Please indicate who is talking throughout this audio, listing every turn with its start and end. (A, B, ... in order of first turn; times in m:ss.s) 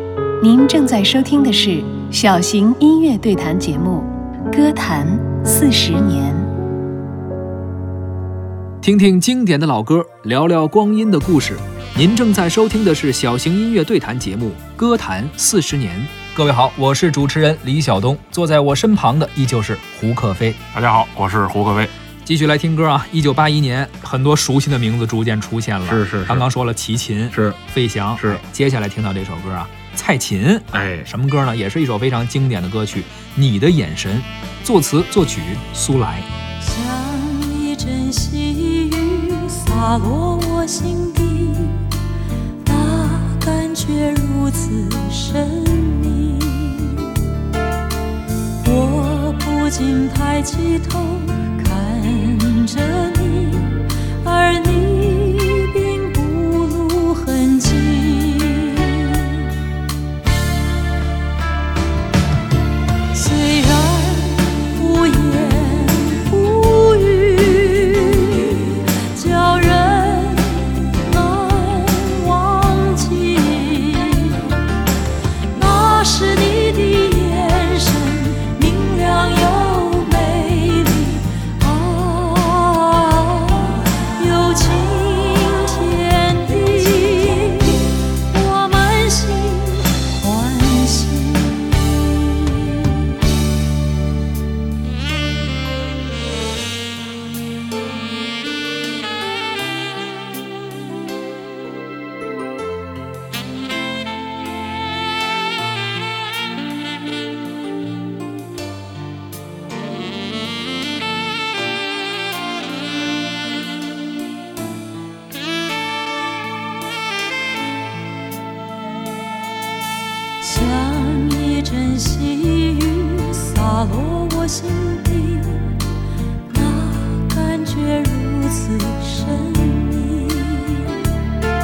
0:00.4-0:06.5 A
0:08.8-0:20.6 B
0:20.7-0:21.9 C
0:22.2-0:36.3 B
0:25.9-0:26.4 C
0:30.7-0:31.1 C
0:36.6-0:41.9 D
0:42.6-0:47.3 D
0:48.6-0:59.5 D
1:03.1-1:14.8 D
1:15.5-1:33.1 D
2:00.4-2:05.9 D
2:06.5-2:11.1 D